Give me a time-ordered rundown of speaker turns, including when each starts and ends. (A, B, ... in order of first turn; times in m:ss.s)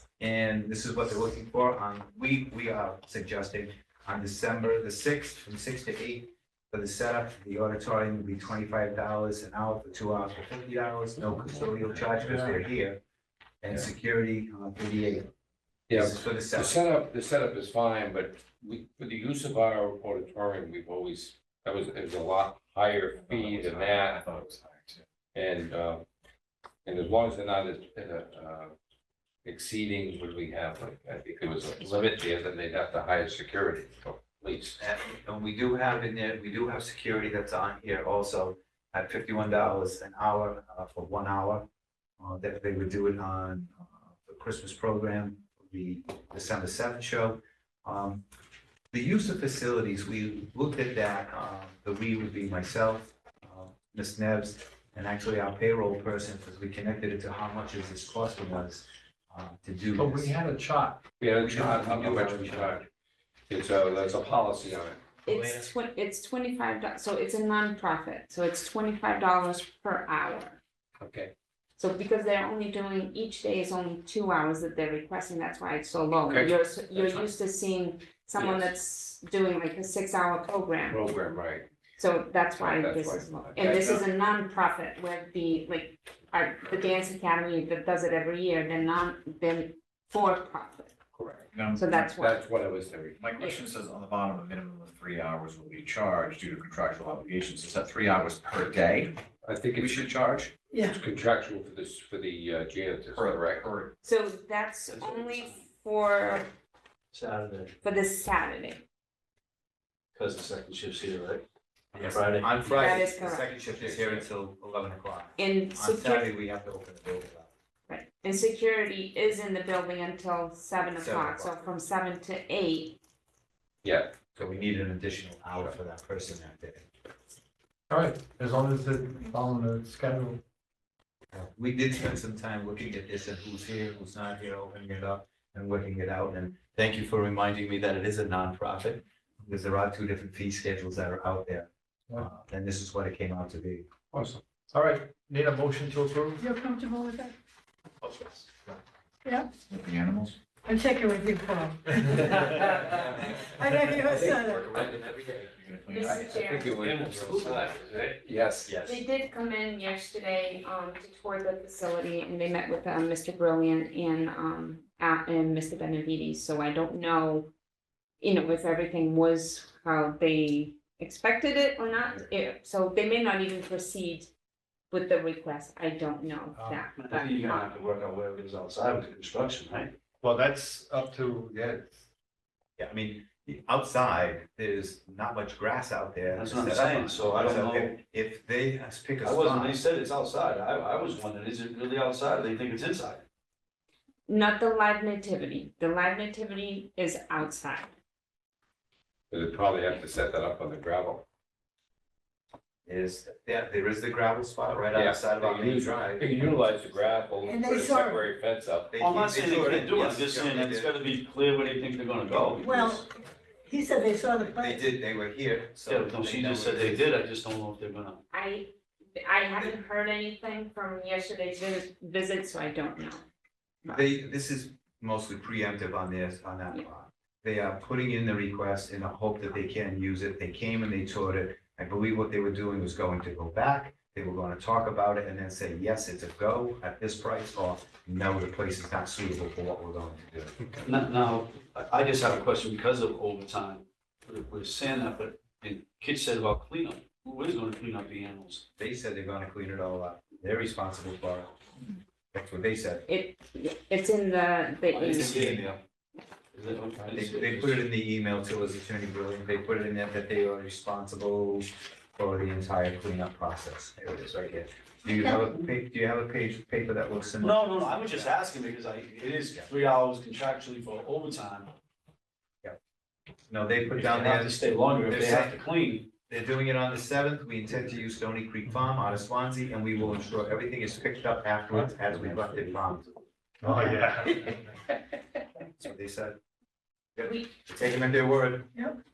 0:00.2-0:13.0 A
0:12.2-0:12.6 B
0:13.6-0:15.3 A
0:15.9-0:24.2 C
0:15.9-0:16.8 A
0:23.2-0:25.0 D
0:25.3-0:26.1 C
0:26.9-0:28.7 C
0:29.4-0:34.8 C
0:34.8-0:41.6 A
0:42.2-0:48.2 A
0:48.9-1:00.4 A
1:00.0-1:01.0 B
1:01.2-1:02.9 C
1:01.4-1:02.8 A
1:03.5-1:05.0 C
1:05.2-1:10.6 E
1:05.3-1:05.6 A
1:11.0-1:11.3 C
1:11.8-1:21.1 E
1:16.3-1:17.3 C
1:18.4-1:18.7 C
1:20.9-1:21.7 C
1:22.0-1:30.9 E
1:22.6-1:23.8 C
1:23.7-1:24.0 D
1:31.1-1:31.5 C
1:31.5-1:32.0 D
1:31.7-1:32.4 E
1:32.2-1:33.2 C
1:33.2-1:39.1 D
1:33.4-1:33.6 E
1:39.4-1:43.6 C
1:40.7-1:41.0 F
1:43.1-1:43.9 D
1:44.0-1:46.5 E
1:44.9-1:45.6 G
1:47.1-1:47.8 G
1:47.8-1:48.8 E
1:50.1-1:51.4 G
1:51.9-1:57.5 A
1:52.0-1:53.0 G
1:52.7-1:53.6 E
1:53.8-1:54.3 C
1:55.4-1:56.3 E
1:57.9-2:03.0 E
2:01.0-2:01.6 A
2:03.8-2:04.2 C
2:04.4-2:06.9 A
2:07.9-2:10.4 B
2:11.3-2:23.8 A
2:24.1-2:24.4 C
2:24.7-2:26.4 B
2:26.4-2:27.3 F
2:29.7-2:30.4 D
2:30.7-2:32.4 F
2:32.2-2:33.0 B
2:33.5-2:34.7 F
2:34.0-2:34.4 B
2:34.1-2:35.4 C
2:34.2-2:36.6 D
2:35.9-2:36.8 E
2:36.4-2:38.8 C
2:36.7-2:37.7 G
2:38.7-2:39.0 A
2:38.8-2:47.5 E
2:48.2-2:54.3 E
2:54.9-2:57.7 E
2:56.9-2:59.9 G
3:00.2-3:02.0 B
3:02.8-3:09.8 A
3:06.3-3:08.0 G
3:09.2-3:13.2 G
3:14.3-3:17.9 E
3:19.3-3:21.2 C
3:22.9-3:26.3 A
3:24.9-3:28.9 C
3:27.4-3:28.2 F
3:28.9-3:30.9 A
3:29.0-3:33.0 G
3:32.6-3:33.0 F
3:33.7-3:34.9 F
3:34.5-3:37.1 A
3:35.8-3:38.2 G
3:38.3-3:38.7 E
3:39.2-3:43.2 E
3:43.9-4:00.6 A
4:00.8-4:08.6 G
4:08.8-4:11.5 A
4:12.3-4:13.0 A
4:13.1-4:15.4 E
4:14.9-4:15.7 G
4:15.2-4:15.8 A
4:16.5-4:17.8 G
4:17.1-4:28.3 A
4:27.4-4:31.7 G
4:33.5-4:35.6 A
4:33.9-4:36.1 G
4:36.3-4:43.1 A
4:43.6-4:44.6 B
4:45.7-4:46.4 A
4:47.2-4:48.7 A